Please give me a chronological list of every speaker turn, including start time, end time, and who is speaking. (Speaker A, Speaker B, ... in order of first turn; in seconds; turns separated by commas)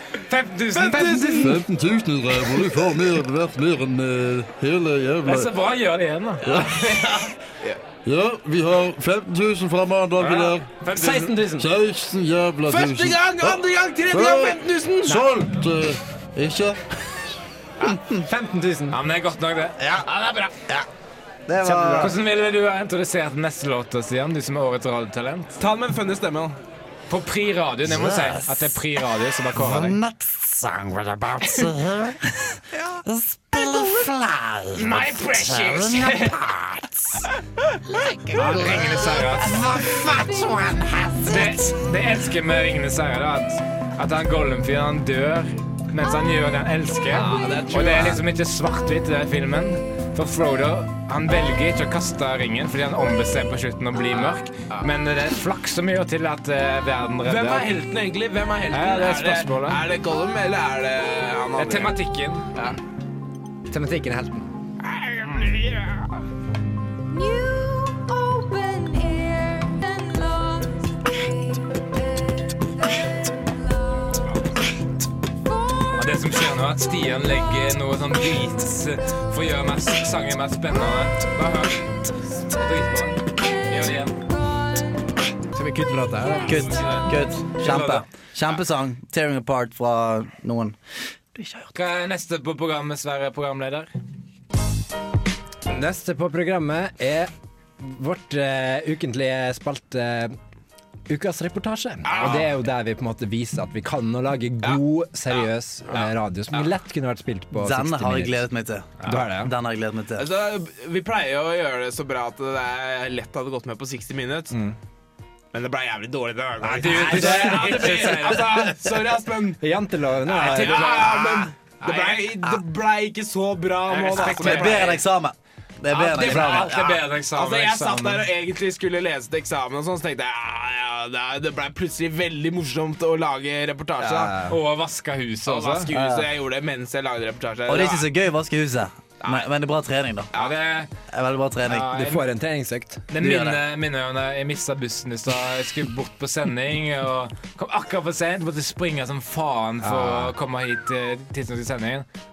Speaker A: 0.1-1.6, Speaker B: 0.7-1.6, Speaker C: 1.4-5.5, Speaker A: 5.2-7.2, Speaker C: 8.0-10.7, Speaker A: 10.2-11.4, Speaker D: 10.9-11.7, Speaker C: 11.6-13.6, Speaker B: 12.7-15.2, Speaker C: 14.1-16.8, Speaker E: 17.8-18.2, Speaker D: 18.1-19.0, Speaker A: 18.9-19.8, Speaker E: 19.8-20.1, Speaker B: 20.1-20.5, Speaker E: 21.5-22.2, Speaker D: 21.6-22.1, Speaker A: 21.9-25.6, Speaker B: 25.6-26.6, Speaker A: 27.1-30.0, Speaker E: 27.8-28.8, Speaker E: 29.5-37.3, Speaker A: 34.7-36.4, Speaker E: 38.1-41.3, Speaker A: 38.3-39.9, Speaker A: 41.2-57.7, Speaker B: 47.1-48.2, Speaker B: 57.2-62.0, Speaker A: 58.7-59.8, Speaker A: 61.5-62.5, Speaker D: 63.7-64.5, Speaker B: 64.8-66.1, Speaker A: 65.3-65.5, Speaker F: 67.1-72.5, Speaker A: 75.9-84.2, Speaker D: 85.5-86.6, Speaker E: 86.4-90.8, Speaker A: 86.6-88.0, Speaker E: 91.3-91.7, Speaker A: 91.7-93.9, Speaker D: 95.7-100.4, Speaker D: 101.1-108.5, Speaker B: 102.0-102.5, Speaker B: 104.6-106.7, Speaker E: 107.5-110.3, Speaker D: 109.0-109.5, Speaker B: 110.2-114.5, Speaker D: 114.5-114.8, Speaker B: 115.5-119.6, Speaker A: 116.6-118.6, Speaker D: 116.8-118.3, Speaker D: 119.6-121.1, Speaker A: 120.3-122.3, Speaker B: 120.4-125.0, Speaker A: 123.9-125.0, Speaker E: 124.1-126.7, Speaker B: 125.9-134.3, Speaker A: 125.9-128.3, Speaker D: 134.0-134.6, Speaker A: 134.5-135.9, Speaker B: 135.4-138.1, Speaker E: 135.9-136.3, Speaker E: 137.7-140.3, Speaker B: 139.2-139.5, Speaker A: 140.3-140.9, Speaker E: 141.1-141.9, Speaker A: 141.7-142.2, Speaker D: 141.8-143.0, Speaker A: 143.1-152.1, Speaker E: 143.2-143.6, Speaker D: 149.8-150.3